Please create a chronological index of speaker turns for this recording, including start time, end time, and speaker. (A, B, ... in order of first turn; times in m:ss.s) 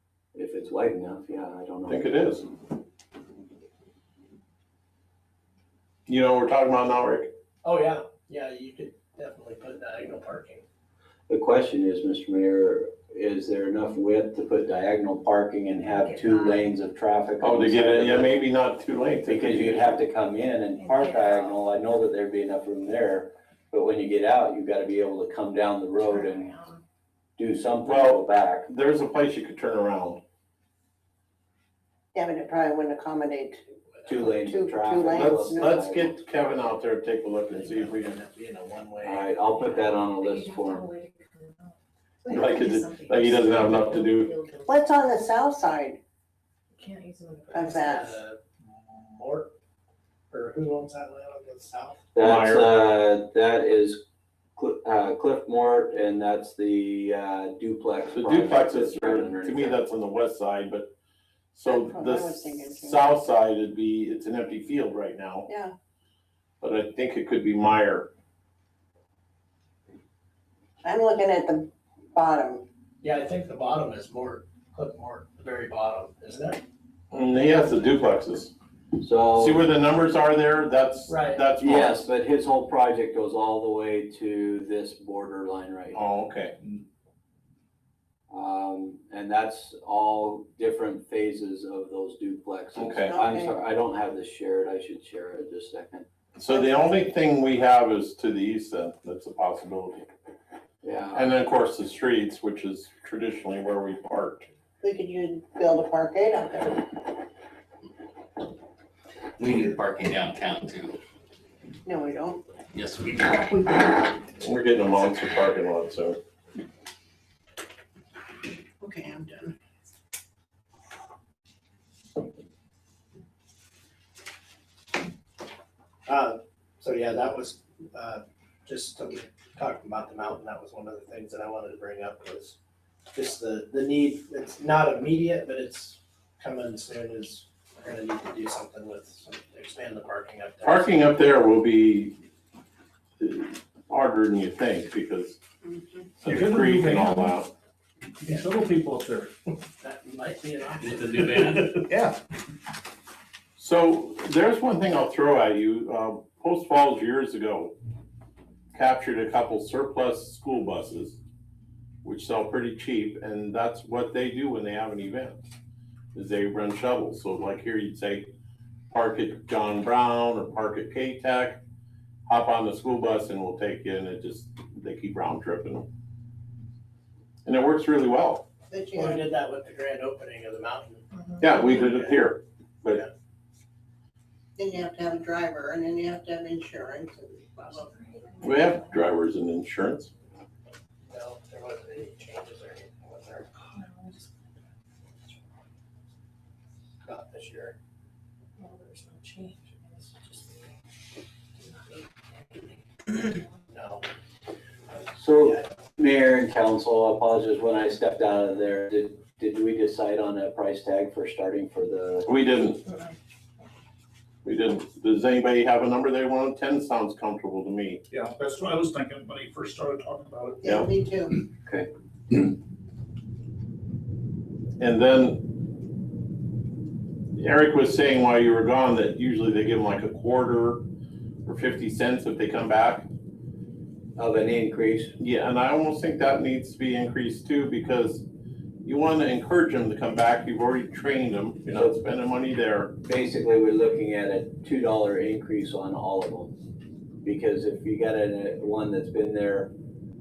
0:00.3-0:02.1 A
0:01.9-0:02.4 B
0:06.1-0:07.3 B
0:07.6-0:10.6 C
0:11.3-0:18.3 A
0:16.0-0:16.7 D
0:17.4-0:20.0 B
0:19.2-0:26.6 A
0:20.8-0:21.6 D
0:26.1-0:26.8 D
0:27.4-0:28.7 A
0:27.8-0:30.2 B
0:32.1-0:35.9 E
0:34.1-0:36.1 A
0:35.1-0:38.1 B
0:37.5-0:39.4 C
0:39.0-0:40.9 A
0:39.6-0:45.2 D
0:42.3-0:44.3 B
0:44.7-0:46.0 E
0:46.7-0:48.0 D
0:47.5-0:48.1 E
0:47.7-0:49.5 C
0:50.3-0:52.0 C
0:52.1-0:54.0 A
0:52.2-0:52.7 B
0:54.6-0:59.8 A
0:58.1-1:00.9 B
1:01.5-1:05.5 B
1:01.6-1:03.2 E
1:05.5-1:05.7 E
1:06.6-1:08.1 B
1:10.8-1:12.6 E
1:13.0-1:16.6 C
1:17.1-1:18.5 B
1:19.0-1:19.6 A
1:19.4-1:22.0 B
1:21.1-1:21.4 C
1:21.6-1:26.0 A
1:25.9-1:26.5 B
1:28.3-1:36.0 A
1:32.8-1:33.2 B
1:33.1-1:33.6 E
1:36.4-1:40.1 B
1:36.5-1:36.9 E
1:40.8-1:41.3 A
1:41.1-1:44.5 B
1:44.8-1:46.8 E
1:49.4-1:51.0 F
1:51.8-1:52.4 E
1:52.7-1:53.5 F
1:54.4-1:56.2 B
1:58.8-1:59.5 E
2:06.0-2:12.6 C
2:13.1-2:21.1 C
2:20.6-2:22.2 B
2:23.2-2:25.4 B
2:26.2-2:27.5 B
2:26.2-2:27.4 G
2:28.2-2:29.3 G
2:29.8-2:31.8 C
2:30.8-2:31.8 F
2:31.8-2:32.2 G
2:33.6-2:37.7 B
2:38.7-2:41.2 B
2:42.0-2:45.5 B
2:46.1-2:48.3 B
2:48.9-2:51.6 B
2:52.3-2:55.8 B
2:57.4-2:58.4 B
2:58.7-2:59.2 E
2:58.9-3:02.3 C
3:01.2-3:01.5 D
3:01.4-3:03.0 B
3:04.6-3:08.0 E
3:07.8-3:08.8 D
3:08.4-3:10.1 B
3:11.0-3:13.5 C
3:13.6-3:14.3 D
3:17.0-3:17.8 C
3:18.6-3:20.7 D
3:21.6-3:23.4 D
3:23.7-3:24.1 C
3:25.2-3:32.3 A
3:32.2-3:32.8 B
3:34.4-3:38.0 B
3:38.1-3:40.6 G
3:40.6-3:41.4 E
3:41.6-3:42.4 A
3:44.8-3:45.6 B
3:47.3-3:50.8 B
3:51.4-3:53.1 B
3:54.2-3:55.2 A
3:55.2-3:58.2 B
3:58.8-4:03.0 B
4:01.7-4:02.0 A
4:03.0-4:06.5 A
4:07.2-4:09.7 A